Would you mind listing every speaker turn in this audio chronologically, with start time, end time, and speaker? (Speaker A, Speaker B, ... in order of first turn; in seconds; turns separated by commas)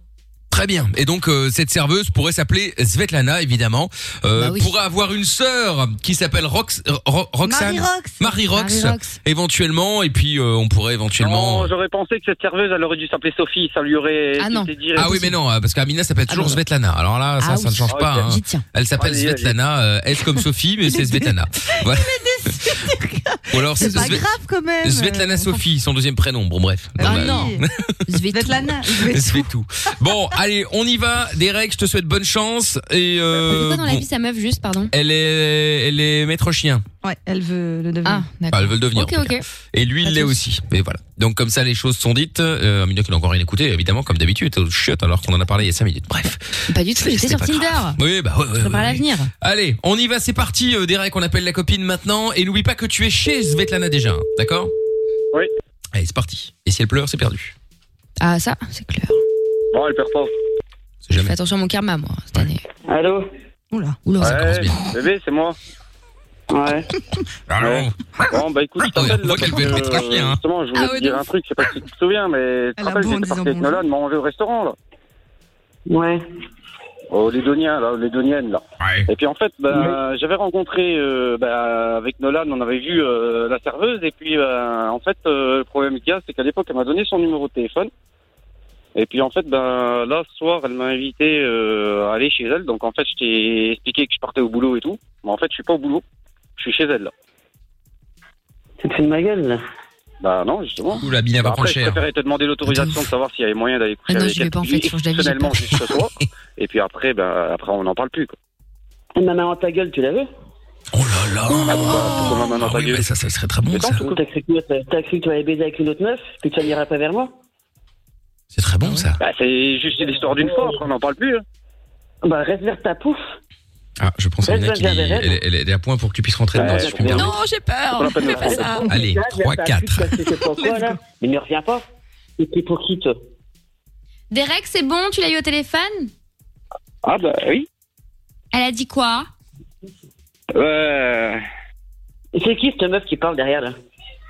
Speaker A: 0.5-11.7, Speaker B: 4.3-4.7, Speaker C: 7.4-8.3, Speaker B: 8.5-9.1, Speaker D: 11.2-15.1, Speaker B: 14.4-15.3, Speaker A: 14.9-22.2, Speaker B: 16.3-16.6, Speaker B: 17.4-18.6, Speaker D: 17.9-18.3, Speaker D: 19.0-19.6, Speaker C: 20.9-25.6, Speaker A: 23.5-24.3, Speaker B: 23.8-24.2, Speaker A: 24.8-27.9, Speaker C: 27.0-27.6, Speaker B: 27.0-28.7, Speaker C: 28.3-29.5, Speaker A: 29.0-34.0, Speaker B: 33.4-34.9, Speaker A: 34.9-36.8, Speaker C: 37.0-38.3, Speaker B: 38.0-39.4, Speaker A: 38.5-54.7, Speaker B: 40.0-40.4, Speaker B: 46.7-48.0, Speaker B: 48.6-49.3, Speaker A: 55.9-57.5, Speaker B: 58.2-59.2, Speaker D: 59.7-60.3, Speaker A: 61.0-61.3, Speaker B: 61.1-62.6, Speaker E: 62.9-63.3, Speaker C: 63.7-64.0, Speaker B: 64.0-64.8, Speaker D: 64.2-65.5, Speaker A: 64.2-64.8, Speaker E: 66.5-66.9, Speaker A: 67.5-67.9, Speaker D: 67.6-74.8, Speaker A: 68.8-70.4, Speaker B: 70.7-71.2, Speaker C: 72.8-73.8, Speaker E: 75.9-76.2, Speaker D: 77.1-87.9, Speaker A: 78.8-79.1, Speaker D: 88.9-96.0, Speaker D: 96.6-97.1, Speaker E: 98.8-99.6, Speaker D: 100.2-108.3, Speaker A: 101.0-102.0, Speaker B: 102.6-103.0, Speaker B: 104.1-105.9, Speaker E: 109.2-110.3, Speaker A: 110.9-114.1, Speaker D: 111.6-113.1, Speaker D: 113.7-114.1, Speaker E: 114.0-117.3, Speaker A: 118.5-119.2, Speaker D: 119.2-121.4, Speaker E: 120.4-120.8, Speaker E: 122.2-123.2, Speaker A: 124.0-127.3, Speaker E: 124.5-125.4, Speaker D: 126.5-127.3, Speaker E: 126.6-127.2, Speaker B: 127.1-128.8, Speaker D: 128.0-128.8, Speaker E: 128.2-131.8, Speaker A: 128.8-130.2, Speaker E: 132.4-133.2, Speaker B: 134.3-136.1, Speaker D: 137.0-137.7, Speaker B: 138.5-139.3, Speaker D: 140.5-141.4, Speaker E: 142.3-143.7